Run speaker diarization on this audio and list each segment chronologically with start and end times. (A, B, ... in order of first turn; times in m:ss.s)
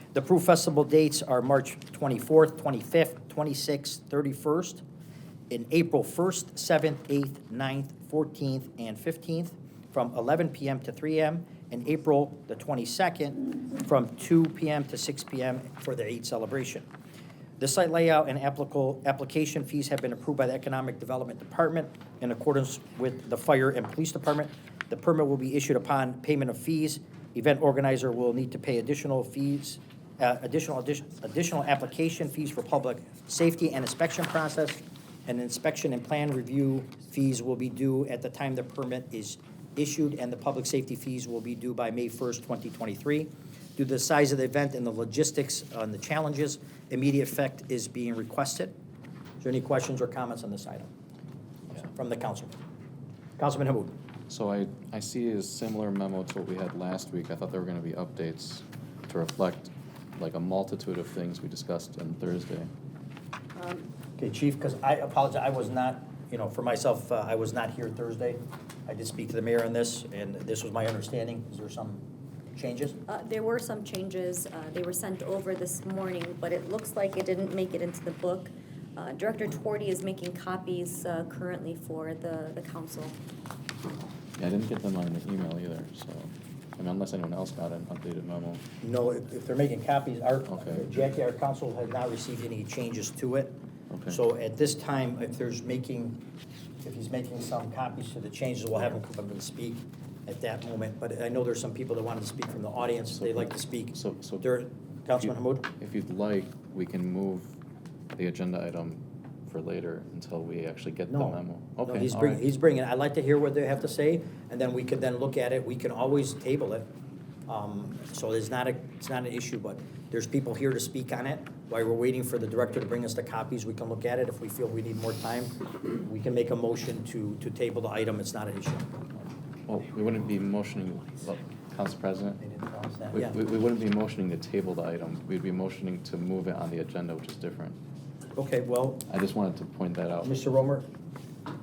0:00.1-0:04.8 A
0:05.5-0:16.9 A
0:17.6-0:48.7 A
0:49.4-0:50.9 A
0:51.7-0:52.6 A
0:53.4-0:53.9 A
0:54.3-1:02.7 B
1:03.6-1:03.9 C
1:04.2-1:12.0 A
1:12.5-1:13.0 A
1:13.1-1:23.2 C
1:24.4-1:28.6 B
1:28.8-1:33.5 A
1:30.5-1:30.8 B
1:33.9-1:34.2 B
1:34.1-1:36.2 A
1:36.8-1:45.7 A
1:43.1-1:44.5 B
1:45.2-1:47.5 B
1:48.2-1:52.4 B
1:51.1-1:56.9 A
1:57.5-2:08.9 A
2:09.7-2:12.4 B
2:12.4-2:13.4 A
2:13.1-2:17.8 B
2:18.4-2:19.0 A
2:19.1-2:20.3 B
2:20.2-2:20.8 A